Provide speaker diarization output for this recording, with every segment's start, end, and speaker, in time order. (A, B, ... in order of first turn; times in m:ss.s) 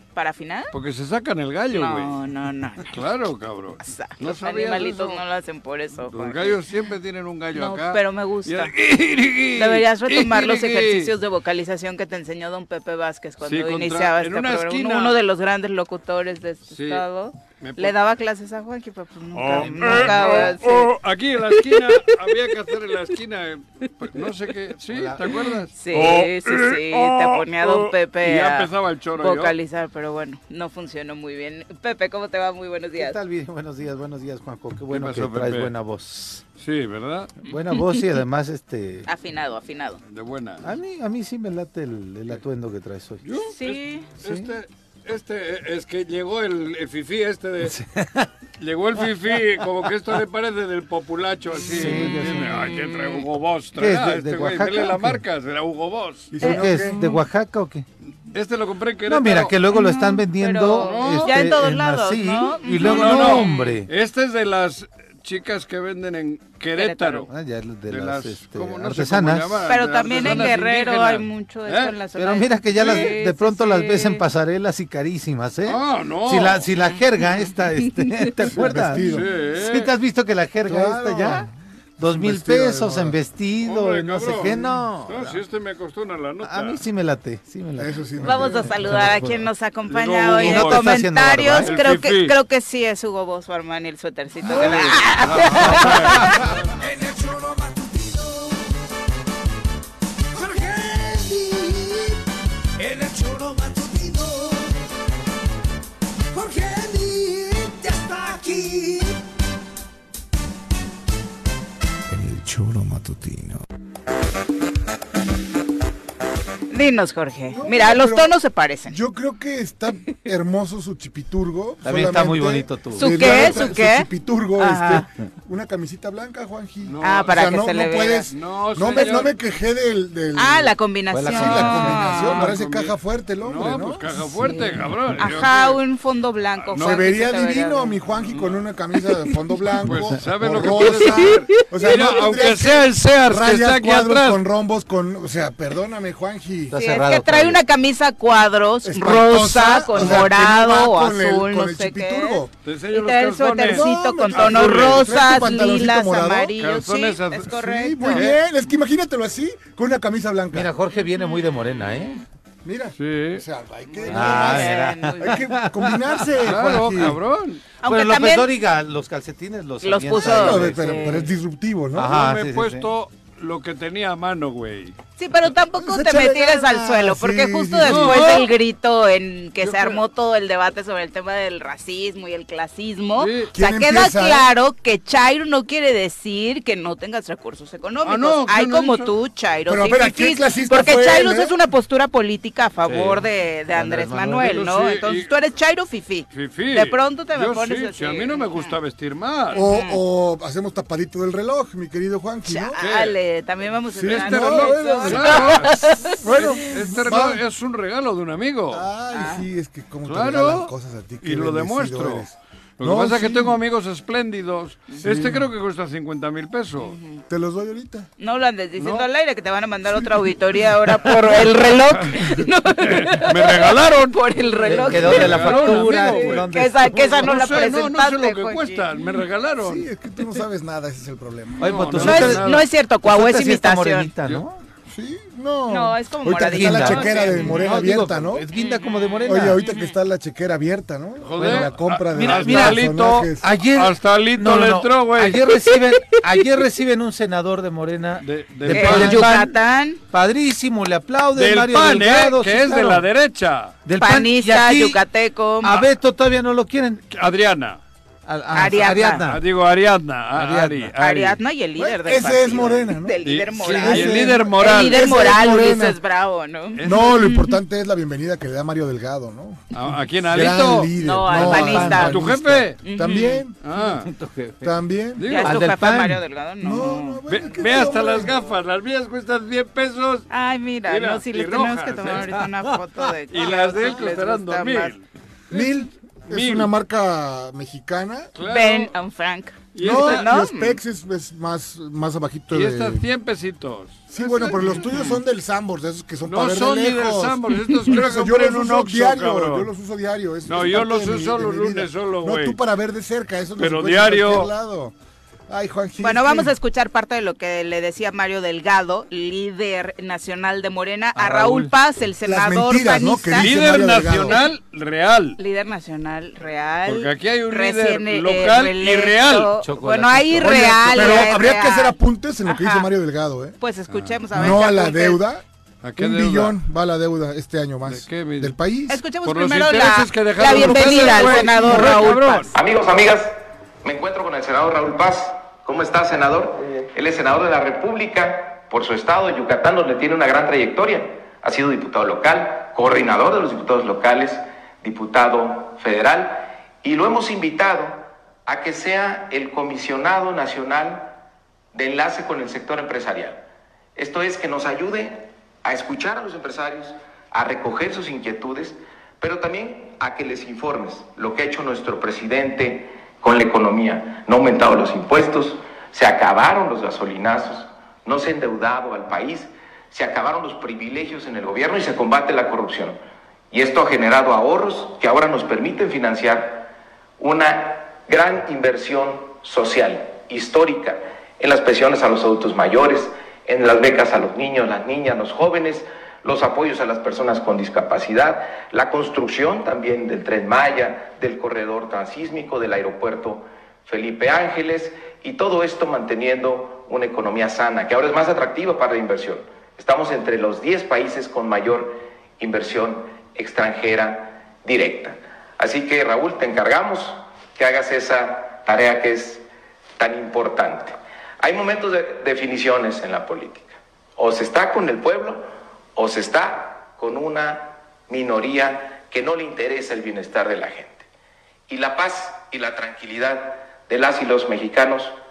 0:00.1-0:00.7 A
0:00.7-0:02.2 B
0:01.7-0:02.9 A
0:02.9-0:05.2 B
0:03.8-0:06.6 A
0:06.1-0:11.1 B
0:07.5-0:08.7 A
0:09.6-0:20.9 A
0:13.4-0:15.2 B
0:16.7-0:17.0 B
0:17.6-0:17.9 B
0:19.3-0:29.5 B
0:19.6-0:20.3 C
0:21.8-0:22.2 A
0:24.9-0:25.3 C
0:25.7-0:33.2 A
0:33.0-0:36.4 C
0:34.9-0:35.7 B
0:36.6-0:37.4 B
0:37.4-0:39.1 C
0:39.1-0:40.0 A
0:40.1-0:40.7 B
0:40.6-0:43.2 C
0:43.2-0:47.7 B
0:43.5-0:44.1 A
0:44.2-0:44.5 C
0:47.6-0:48.3 C
0:48.6-0:56.3 B
0:51.6-0:53.2 A
0:51.7-0:52.8 C
0:53.8-0:55.2 C
0:56.3-0:57.1 D
0:56.4-0:57.8 C
0:56.8-0:57.1 A
0:58.1-0:59.6 B
0:59.1-1:03.9 C
0:59.7-1:03.7 A
1:00.8-1:01.3 B
1:02.8-1:07.3 B
1:06.7-1:07.3 A
1:07.3-1:10.5 C
1:07.9-1:11.9 B
1:09.7-1:14.2 A
1:12.2-1:21.5 C
1:12.8-1:13.1 B
1:15.6-1:16.7 B
1:17.2-1:18.3 A
1:18.5-1:19.3 D
1:19.0-1:19.9 B
1:20.7-1:21.5 D
1:22.0-1:25.4 C
1:22.1-1:23.2 D
1:23.6-1:26.8 B
1:26.4-1:29.4 C
1:27.8-1:28.7 D
1:28.2-1:36.4 A
1:29.9-1:31.0 B
1:30.3-1:31.7 C
1:31.6-1:32.3 B
1:34.5-1:38.6 D
1:34.6-1:34.9 C
1:35.2-1:36.5 B
1:40.3-1:42.2 D
1:42.8-1:44.7 D
1:46.3-1:49.2 D
1:52.2-1:53.5 D
1:56.7-1:59.0 A
1:57.5-1:58.3 D
1:58.9-2:10.7 D
2:01.8-2:03.7 C
2:03.0-2:05.0 A
2:06.8-2:07.3 B
2:07.0-2:08.3 A
2:08.3-2:09.3 B
2:08.9-2:09.3 A
2:10.4-2:12.4 A
2:11.1-2:12.1 C
2:11.2-2:14.0 D
2:11.6-2:15.8 B
2:14.4-2:17.9 A
2:16.7-2:17.0 B
2:16.8-2:26.8 D
2:18.3-2:18.6 B
2:19.8-2:24.4 B
2:19.9-2:20.2 C
2:21.3-2:21.6 A
2:26.7-2:27.6 C
2:26.8-2:32.4 A
2:28.8-2:32.5 D
2:32.6-2:35.1 B
2:32.9-2:38.3 A
2:33.6-2:36.5 D
2:36.6-2:38.3 B
2:37.5-2:40.7 D
2:40.5-2:42.2 C
2:42.6-2:47.2 D
2:43.0-2:43.4 B
2:44.1-2:46.4 C
2:44.1-2:45.3 A
2:46.4-2:47.6 B
2:47.8-2:48.5 A
2:47.8-2:51.1 C
2:49.8-2:51.3 A
2:50.2-2:52.1 D
2:51.9-2:52.9 C
2:52.1-2:54.9 B
2:55.2-3:18.7 A
2:55.8-2:58.3 D
2:57.8-2:58.5 B
2:59.6-3:00.0 B
3:03.2-3:03.5 B
3:03.5-3:04.5 D
3:08.0-3:09.1 B
3:09.7-3:11.6 D
3:12.8-3:14.6 C
3:14.4-3:15.4 B
3:16.3-3:19.6 B
3:19.5-3:20.0 A
3:19.5-3:22.8 D
3:22.5-3:26.2 A
3:22.8-3:23.2 B
3:23.9-3:25.7 D
3:24.1-3:28.8 B
3:26.2-3:27.4 D
3:28.7-3:33.5 D
3:29.1-3:29.4 A
3:30.0-3:30.7 B
3:31.2-3:32.3 B
3:32.8-3:37.0 B
3:35.0-3:35.3 D
3:36.8-3:37.2 A
3:37.3-3:38.1 D
3:38.2-3:48.9 A
3:38.8-3:39.0 B
3:41.2-3:42.2 B
3:42.8-3:46.5 B
3:44.6-3:47.3 C
3:47.2-3:49.8 B
3:49.6-3:52.2 D
3:51.6-3:54.6 C
3:51.6-3:52.6 B
3:52.0-3:54.1 A
3:54.9-3:58.4 D
3:55.7-3:57.8 A
3:56.3-3:59.6 C
3:58.6-4:00.0 A
3:59.3-4:03.5 D
4:01.2-4:05.4 B
4:01.4-4:09.6 C
4:08.2-4:09.3 B
4:08.7-4:10.0 A
4:10.1-4:13.0 C
4:11.4-4:13.7 B
4:13.8-4:15.0 C
4:14.0-4:15.9 A
4:15.6-4:17.0 C
4:17.1-4:17.8 B
4:18.2-4:19.4 C
4:18.5-4:19.2 A
4:19.2-4:21.4 B
4:20.3-4:20.9 C
4:21.0-4:27.6 A
4:21.8-4:26.0 D
4:23.2-4:25.1 B
4:26.8-4:27.1 B
4:26.8-4:29.6 D
4:29.7-4:30.9 B
4:30.2-4:32.3 D
4:31.0-4:32.2 A
4:31.3-4:32.7 C
4:31.7-4:34.1 B
4:32.8-4:33.4 A
4:32.8-4:33.5 D
4:33.8-4:34.7 C
4:34.6-4:35.2 D
4:35.2-4:35.6 B
4:35.3-4:37.2 A
4:35.4-4:36.2 C
4:36.6-4:38.4 D
4:37.3-4:40.3 B
4:40.3-4:44.9 A
4:40.9-4:42.5 B
4:43.3-4:46.7 B
4:45.5-4:48.3 D
4:48.4-4:48.9 B
4:48.5-4:50.8 A
4:49.7-4:50.3 B
4:49.8-4:53.0 D
4:52.5-4:54.9 B
4:54.1-5:04.9 D
4:54.2-4:55.2 A
4:56.3-4:59.7 B
5:00.5-5:02.6 B
5:03.6-5:04.5 B
5:05.5-5:06.5 D
5:06.0-5:13.5 A
5:11.2-5:11.7 B
5:12.2-5:14.4 D
5:13.4-5:15.4 B
5:15.4-5:22.9 A
5:16.8-5:19.5 B
5:19.6-5:21.1 C
5:20.4-5:23.6 D
5:23.6-5:25.2 A
5:23.9-5:24.2 B
5:24.3-5:25.4 D
5:25.8-5:26.6 B
5:26.0-5:29.0 D
5:27.9-5:28.5 B
5:28.9-5:32.5 A
5:29.2-5:32.5 B
5:30.6-5:31.7 D
5:32.5-5:51.1 E
5:51.7-5:53.4 E
5:54.0-6:13.0 E
6:13.5-6:16.7 E
6:17.2-6:49.4 E
6:50.0-7:01.0 E
7:01.7-7:05.1 E